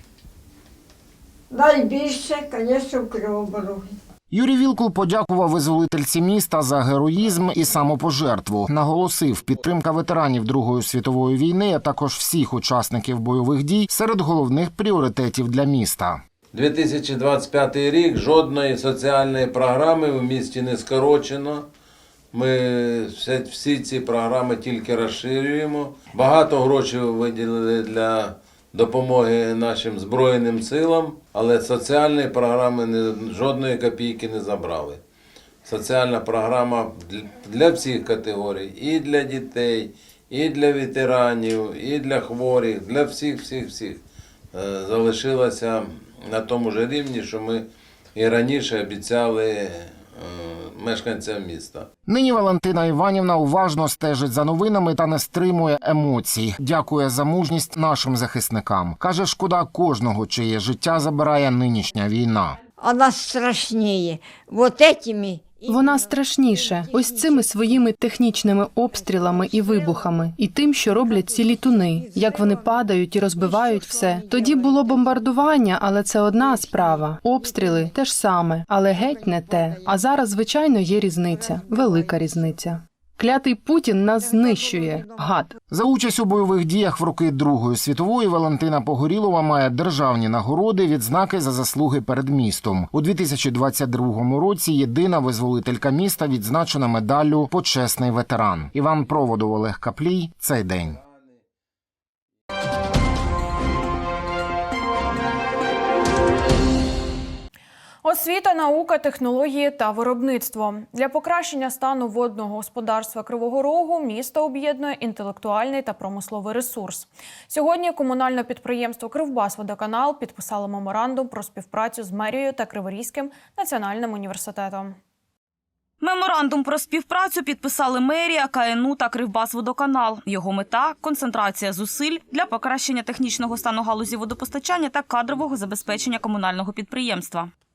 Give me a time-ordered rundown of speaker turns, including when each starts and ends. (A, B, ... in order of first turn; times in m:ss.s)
0:01.5-0:03.9 A
0:04.3-0:16.2 B
0:16.5-0:21.6 C
0:22.3-0:35.0 C
0:35.6-0:44.0 C
0:44.5-0:51.9 C
0:52.1-1:02.6 B
1:02.8-1:06.0 A
1:05.6-1:25.5 D
1:25.7-1:41.0 B
1:48.0-2:05.0 E
2:06.0-2:17.5 F